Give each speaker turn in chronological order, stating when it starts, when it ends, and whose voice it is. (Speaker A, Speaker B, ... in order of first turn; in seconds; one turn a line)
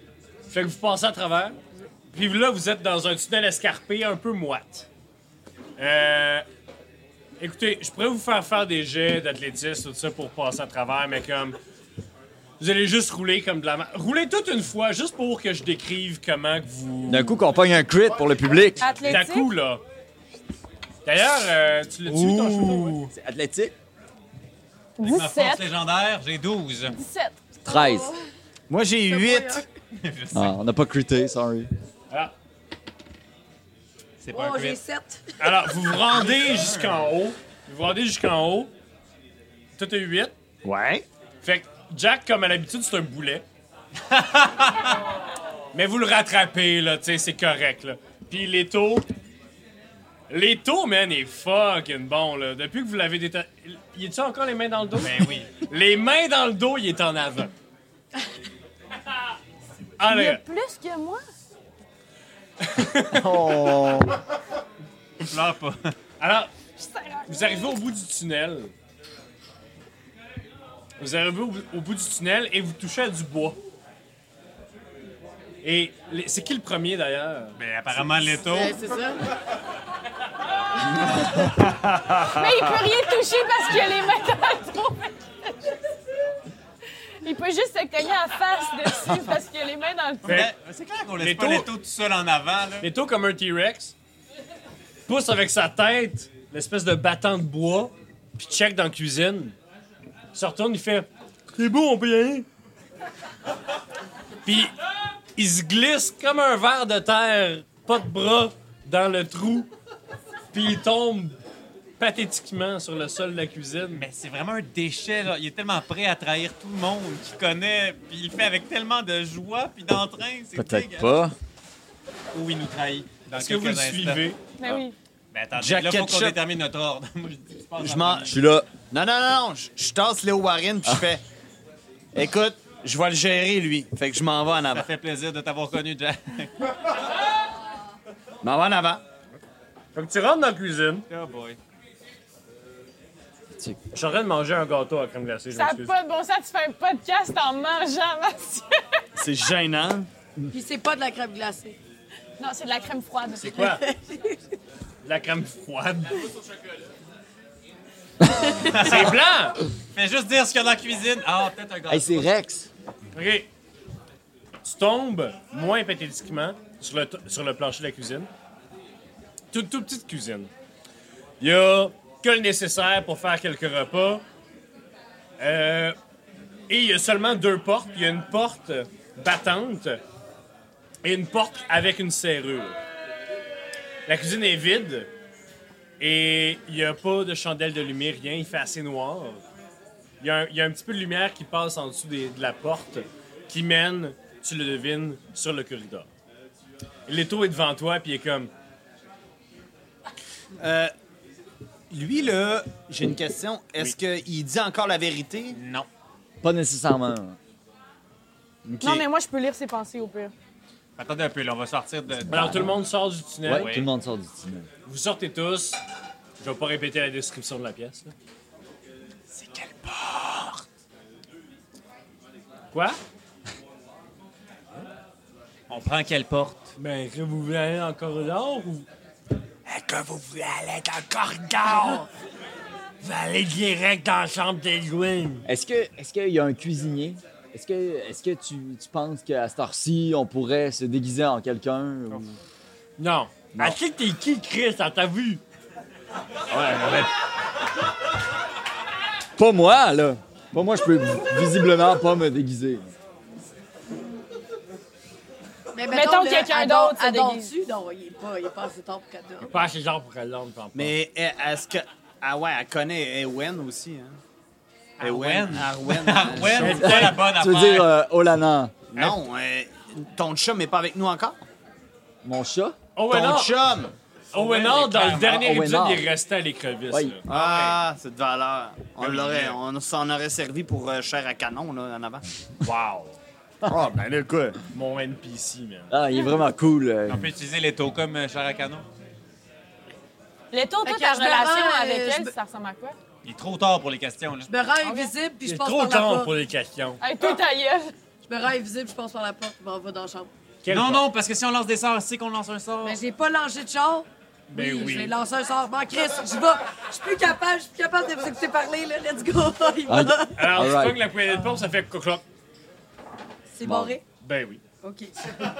Speaker A: 0.5-1.6
Speaker A: 2.1-4.9
Speaker A: 5.8-6.4
Speaker A: 7.4-11.6
Speaker A: 12.6-17.4
Speaker B: 17.1-18.9
Speaker C: 18.8-19.5
Speaker A: 19.0-19.8
Speaker A: 21.1-23.0
Speaker D: 22.1-23.1
Speaker B: 23.1-23.7
Speaker C: 25.0-25.7
Speaker D: 25.0-27.0
Speaker C: 26.9-27.7
Speaker B: 27.6-28.1
Speaker E: 27.7-28.1
Speaker F: 28.7-29.6
Speaker E: 29.1-29.6
Speaker D: 29.9-30.5
Speaker B: 30.3-31.7
Speaker D: 34.2-34.8
Speaker E: 34.3-35.5
Speaker A: 35.4-38.7
Speaker D: 36.2-37.0
Speaker A: 39.8-40.3
Speaker F: 40.6-41.0
Speaker A: 41.4-43.4
Speaker D: 44.1-44.7
Speaker A: 45.7-49.1
Speaker A: 50.3-57.5
Speaker D: 55.0-55.5
Speaker A: 60.0-60.4
Speaker C: 60.0-61.2
Speaker A: 62.6-63.4
Speaker B: 63.2-64.1
Speaker F: 63.5-63.9
Speaker D: 65.2-65.9
Speaker A: 66.2-66.5
Speaker C: 66.8-67.8
Speaker A: 67.3-68.7
Speaker A: 71.0-73.6
Speaker A: 75.6-77.6
Speaker D: 77.6-78.8
Speaker E: 78.4-79.2
Speaker F: 81.4-82.3
Speaker C: 82.3-85.7
Speaker C: 87.2-90.5
Speaker D: 90.2-92.9
Speaker A: 90.2-90.5
Speaker A: 91.2-91.7
Speaker A: 92.8-93.9
Speaker A: 95.1-99.5
Speaker A: 100.3-102.5
Speaker A: 104.4-104.7
Speaker A: 105.3-109.7
Speaker A: 110.5-111.4
Speaker A: 112.0-114.0
Speaker D: 113.9-121.1
Speaker B: 120.5-121.3
Speaker D: 122.3-124.2
Speaker A: 123.3-124.4
Speaker C: 124.6-124.9
Speaker D: 125.3-128.4
Speaker F: 125.6-126.4
Speaker F: 127.8-128.3
Speaker B: 128.3-128.7
Speaker F: 128.9-131.2
Speaker F: 132.1-134.8
Speaker D: 134.7-136.5
Speaker F: 138.4-139.0
Speaker A: 139.9-141.0
Speaker D: 141.1-141.6
Speaker A: 143.9-145.9
Speaker C: 145.5-148.8
Speaker F: 149.2-150.1
Speaker E: 150.5-151.8
Speaker C: 152.4-153.7
Speaker A: 153.4-153.8
Speaker E: 153.6-154.4
Speaker A: 155.0-156.2
Speaker D: 158.7-159.2
Speaker A: 158.8-159.6
Speaker D: 159.9-162.3
Speaker B: 161.9-162.7
Speaker A: 163.1-163.5
Speaker A: 164.6-168.3
Speaker A: 169.5-170.5
Speaker A: 171.4-174.2
Speaker A: 175.4-175.9
Speaker A: 176.7-180.0
Speaker A: 181.0-182.8
Speaker A: 184.1-185.1
Speaker A: 186.0-189.4
Speaker A: 190.2-196.1
Speaker A: 197.1-198.5
Speaker F: 200.6-200.9
Speaker F: 201.9-205.6
Speaker D: 205.5-205.9
Speaker B: 206.4-207.4
Speaker F: 208.7-209.0
Speaker C: 208.8-210.3
Speaker D: 211.0-212.5
Speaker B: 212.2-212.7
Speaker A: 212.3-213.7
Speaker B: 213.4-214.7
Speaker D: 213.5-213.9
Speaker A: 214.8-215.8
Speaker A: 216.4-218.1
Speaker D: 219.3-220.6
Speaker A: 222.7-223.0
Speaker D: 225.7-226.7
Speaker A: 226.8-228.9
Speaker A: 229.7-232.1
Speaker A: 233.0-235.5
Speaker B: 235.4-242.4
Speaker A: 243.0-245.4
Speaker B: 246.5-247.0
Speaker A: 246.7-247.0
Speaker B: 249.4-252.9
Speaker E: 255.7-259.5
Speaker C: 255.9-257.5
Speaker A: 259.5-260.9
Speaker F: 260.7-264.2
Speaker D: 265.0-267.9
Speaker F: 265.0-266.9
Speaker B: 266.5-268.9
Speaker A: 266.6-267.2
Speaker F: 268.9-271.4
Speaker B: 272.2-272.8
Speaker A: 272.9-273.6
Speaker F: 273.1-273.9
Speaker D: 274.3-275.4
Speaker A: 274.3-277.2
Speaker B: 275.2-276.1
Speaker F: 277.2-282.2
Speaker D: 277.3-277.8
Speaker D: 279.0-279.6
Speaker A: 282.6-283.2
Speaker F: 283.6-284.6
Speaker A: 284.7-285.9
Speaker B: 285.9-287.3
Speaker D: 287.1-288.8
Speaker C: 290.5-292.9
Speaker E: 290.8-292.3
Speaker D: 293.2-294.5
Speaker E: 294.5-296.3
Speaker C: 294.8-295.1
Speaker A: 295.4-297.0
Speaker C: 297.0-297.9
Speaker E: 298.2-300.3
Speaker A: 300.6-301.1
Speaker D: 300.7-303.0
Speaker E: 302.8-310.5
Speaker A: 304.5-305.1
Speaker B: 309.9-311.0
Speaker A: 310.3-312.2
Speaker E: 313.5-314.0
Speaker B: 313.6-313.9
Speaker A: 314.2-314.6
Speaker E: 314.8-315.1